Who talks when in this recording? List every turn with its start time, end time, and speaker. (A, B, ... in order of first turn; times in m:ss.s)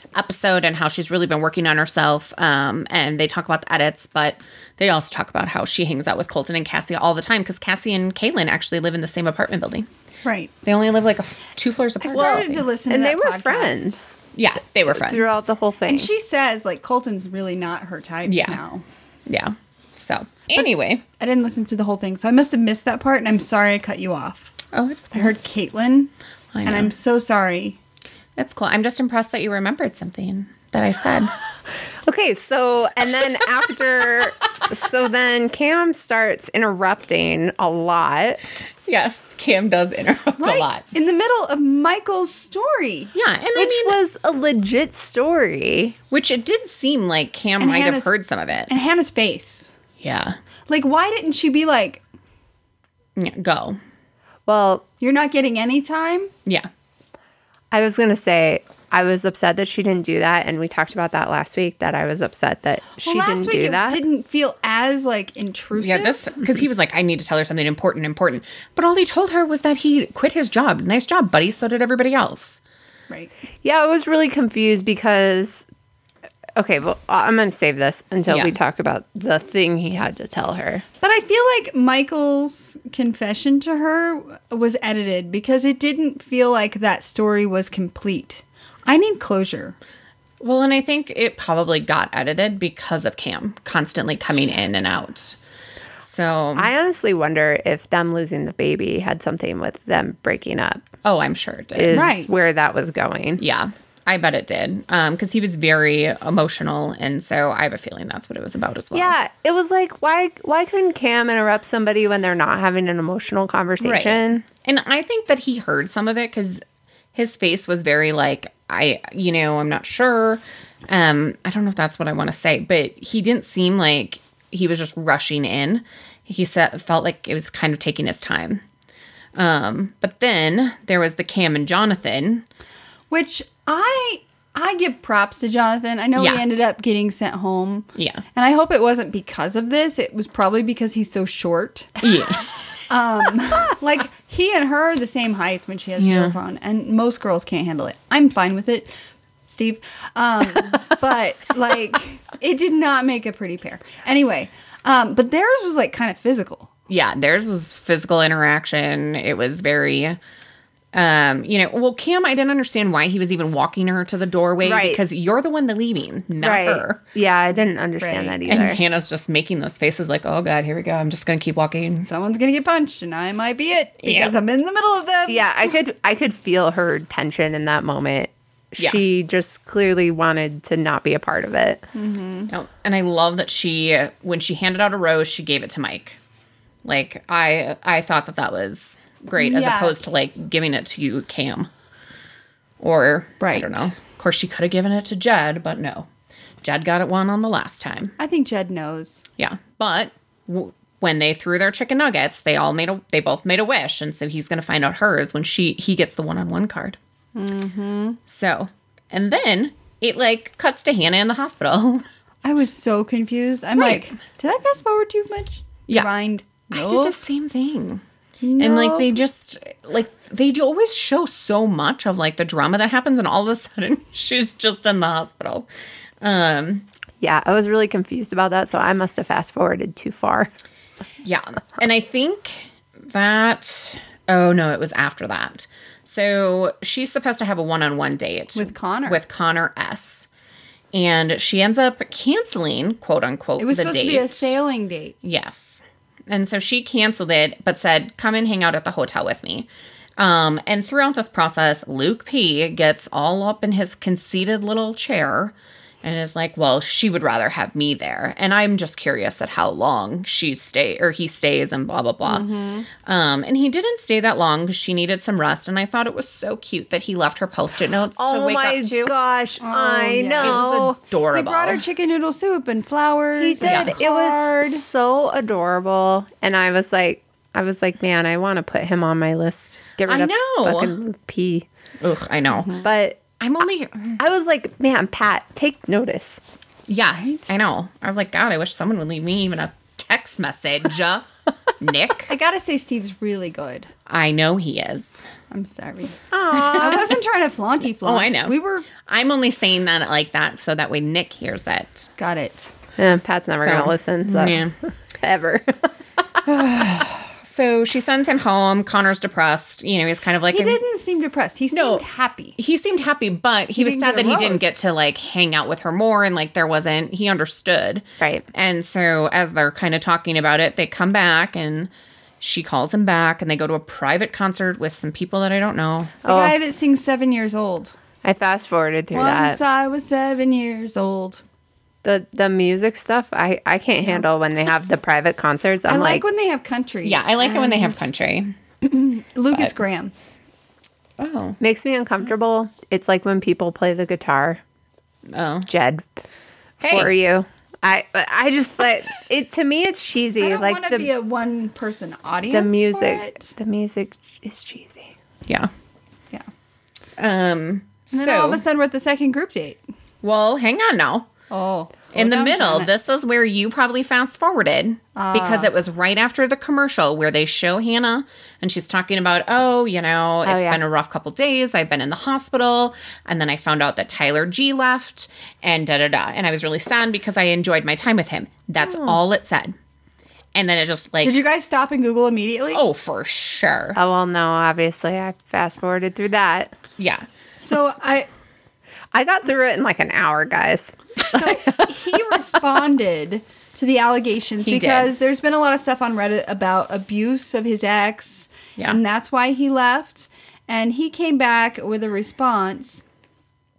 0:00.1-0:09.9 A
0:10.2-0:10.5 B
0:10.6-0:12.7 A
0:12.0-0:14.0 B
0:12.1-0:14.2 C
0:14.3-0:15.4 A
0:14.9-0:16.1 C
0:15.9-0:18.8 B
0:18.3-0:18.6 A
0:19.3-0:21.0 A
0:21.2-0:24.5 B
0:24.7-0:25.3 A
0:25.1-0:26.1 B
0:26.5-0:26.9 A
0:26.6-0:27.8 B
0:28.4-0:31.3 A
0:32.0-0:38.4 C
0:38.9-0:40.8 A
0:40.4-0:43.1 B
0:43.2-0:44.0 A
0:43.6-0:46.0 C
0:46.1-0:48.7 A
0:47.6-0:48.1 B
0:48.7-0:49.7 B
0:50.0-0:50.4 A
0:50.7-0:52.0 B
0:53.2-0:53.8 A
0:54.5-0:54.8 C
0:55.0-0:56.3 B
0:57.7-1:04.0 C
1:03.0-1:06.3 B
1:05.8-1:12.6 A
1:13.6-1:15.6 C
1:16.6-1:20.8 C
1:18.3-1:18.6 A
1:21.0-1:29.8 B
1:30.4-1:35.4 A
1:36.0-1:36.7 A
1:36.6-1:40.9 C
1:41.0-1:42.1 A
1:41.8-1:43.4 C
1:41.9-1:42.4 B
1:43.4-1:49.2 A
1:48.9-1:54.4 C
1:53.8-1:56.6 A
1:57.2-2:08.6 A
2:09.4-2:12.4 A
2:13.1-2:22.1 B
2:16.2-2:16.4 A
2:18.0-2:18.2 A
2:22.0-2:22.5 A
2:22.9-2:28.9 B
2:26.0-2:26.4 A
2:29.5-2:36.7 B
2:36.9-2:40.2 A
2:40.9-2:47.0 A
2:44.6-2:45.0 C
2:46.4-2:48.8 C
2:48.0-2:48.4 B
2:48.5-2:52.1 A
2:52.0-2:55.5 B
2:54.0-2:54.4 A
2:55.3-3:01.8 C
3:01.9-3:02.5 B
3:02.5-3:06.2 A
3:06.8-3:11.7 A
3:09.4-3:10.4 B
3:12.8-3:16.1 A
3:13.4-3:13.9 B
3:16.6-3:18.2 A
3:18.2-3:19.2 B
3:19.4-3:27.0 A
3:27.4-3:28.2 B
3:28.3-3:32.0 A
3:32.4-3:37.2 B
3:36.7-3:38.0 A
3:38.4-3:39.2 B
3:38.6-3:45.7 A
3:46.2-3:46.9 A
3:47.2-3:50.5 C
3:51.2-4:00.3 A
3:58.6-3:59.2 B
4:00.9-4:04.5 A
4:03.6-4:05.2 B
4:05.2-4:22.5 A
4:22.3-4:22.9 B
4:23.0-4:29.1 A
4:28.2-4:31.0 C
4:29.6-4:34.8 B
4:30.4-4:31.8 A
4:33.4-4:41.7 C
4:33.6-4:34.0 A
4:40.1-4:41.0 A
4:42.0-4:42.8 A
4:42.7-4:43.2 C
4:43.4-4:44.2 A
4:44.2-4:46.4 C
4:46.9-4:51.3 A
4:47.2-4:47.5 B
4:51.8-4:52.3 A
4:52.3-4:53.9 B
4:54.1-4:55.1 A
4:55.5-4:58.9 B
4:56.3-4:57.1 C
4:56.8-4:57.0 A
4:58.0-5:02.1 A
5:02.2-5:02.7 B
5:03.0-5:05.9 C
5:03.6-5:04.8 A
5:06.4-5:10.8 A
5:10.5-5:12.6 B
5:11.7-5:12.0 A
5:12.6-5:21.9 A
5:13.8-5:14.8 B
5:18.2-5:18.4 C
5:22.4-5:26.2 A
5:26.2-5:26.6 C
5:26.2-5:27.9 B
5:28.2-5:29.6 C
5:29.1-5:31.4 B
5:32.0-5:36.2 C
5:35.9-5:38.0 B
5:37.0-5:38.6 A
5:38.8-5:40.1 B
5:41.2-5:41.6 A
5:41.6-5:44.6 C
5:45.3-5:45.7 A
5:45.7-5:46.1 C
5:46.8-5:47.1 A
5:46.8-5:51.1 C
5:50.4-5:53.6 B
5:52.5-5:55.1 C
5:57.2-5:58.6 A
5:58.1-5:59.8 B
6:00.2-6:01.3 A
6:01.5-6:02.9 B
6:02.1-6:19.8 A
6:05.2-6:05.7 B
6:10.4-6:10.8 C
6:18.9-6:19.2 C
6:20.6-6:21.4 A
6:21.2-6:22.8 B
6:22.7-6:24.0 A
6:24.0-6:26.8 C
6:27.0-6:27.2 A
6:27.6-6:28.3 B
6:29.1-6:31.0 C
6:31.3-6:43.0 B
6:34.6-6:35.1 A